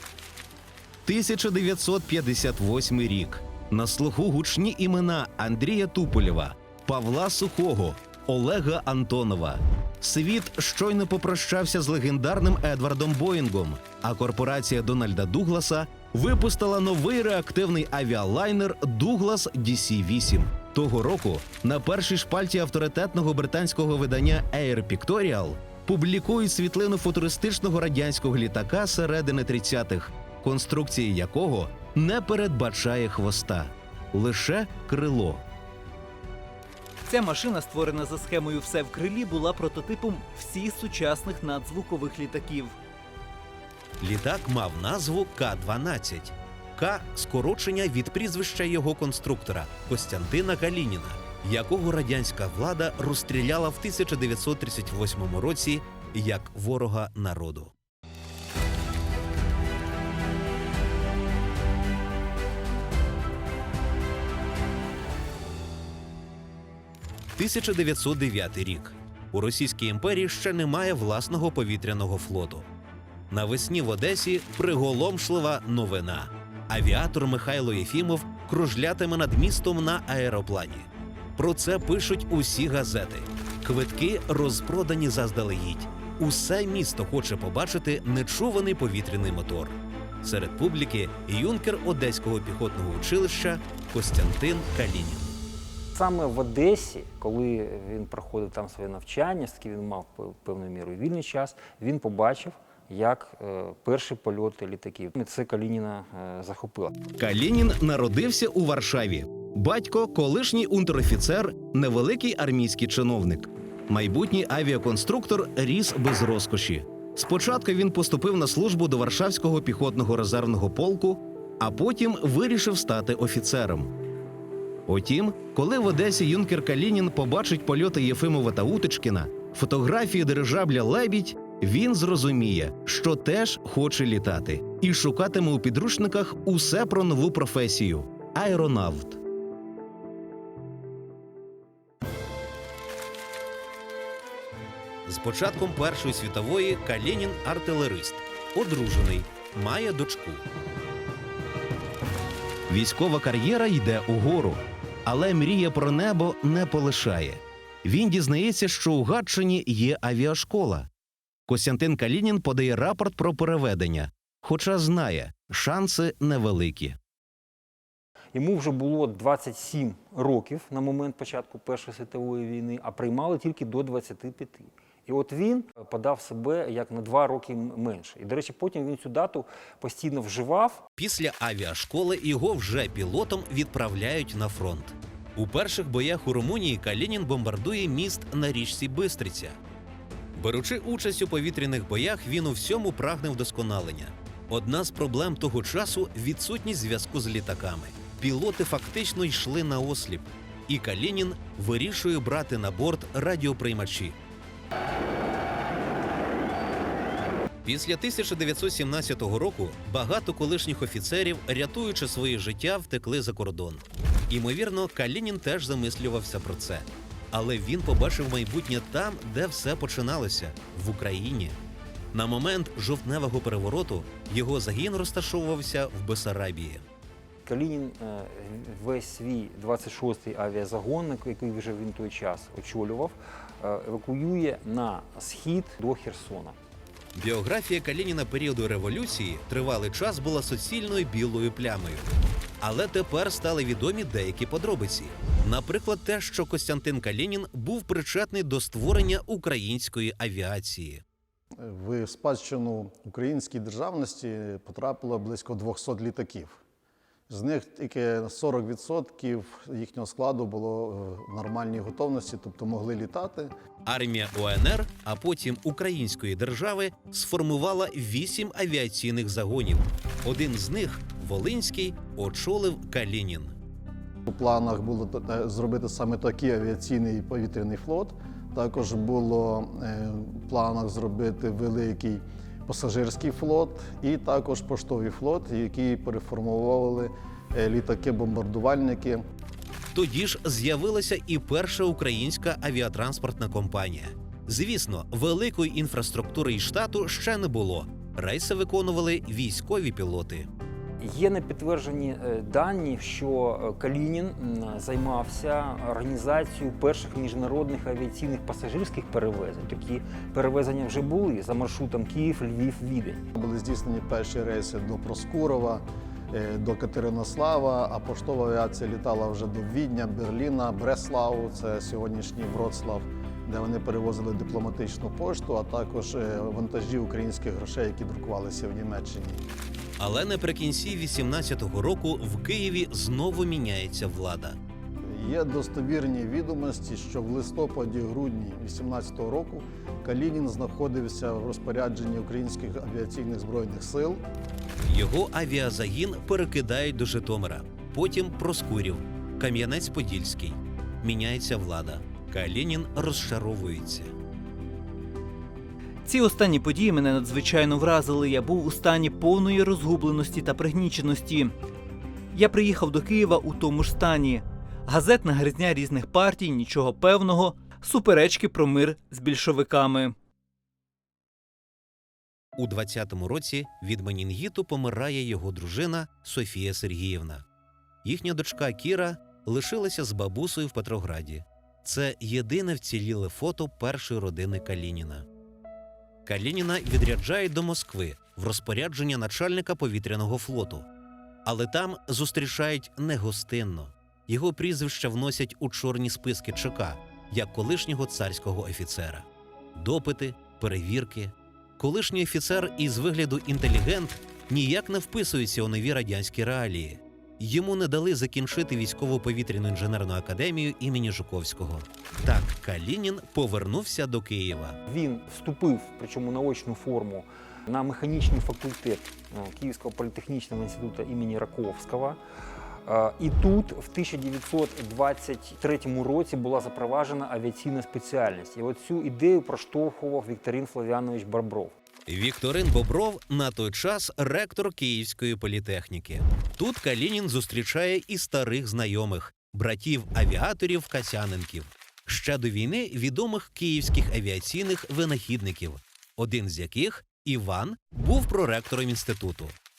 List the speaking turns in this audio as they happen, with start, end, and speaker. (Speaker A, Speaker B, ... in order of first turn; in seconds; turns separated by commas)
Speaker A: 1.1-35.4, Speaker B: 37.0-42.8, Speaker A: 44.0-57.7, Speaker A: 67.4-72.7, Speaker A: 73.3-95.3, Speaker C: 96.0-106.9, Speaker A: 107.2-123.9, Speaker A: 124.9-139.2, Speaker A: 145.1-150.4, Speaker A: 152.7-160.9, Speaker A: 161.5-167.0, Speaker C: 168.3-180.8, Speaker A: 181.0-189.6, Speaker A: 190.4-204.2, Speaker A: 207.6-221.6, Speaker A: 222.1-226.8, Speaker C: 227.4-236.6, Speaker A: 237.2-251.0, Speaker D: 251.6-256.6, Speaker D: 257.3-263.5, Speaker A: 263.9-273.5, Speaker D: 274.2-289.2, Speaker A: 289.9-300.5, Speaker C: 301.0-313.2, Speaker D: 313.3-329.4, Speaker A: 330.0-334.6, Speaker D: 335.1-344.2, Speaker A: 344.8-354.1, Speaker B: 356.0-361.5, Speaker B: 362.3-370.1, Speaker A: 372.6-377.4, Speaker A: 378.0-385.2, Speaker A: 386.2-390.9, Speaker A: 391.4-414.8, Speaker C: 414.9-422.2, Speaker C: 422.8-431.7, Speaker A: 432.1-449.5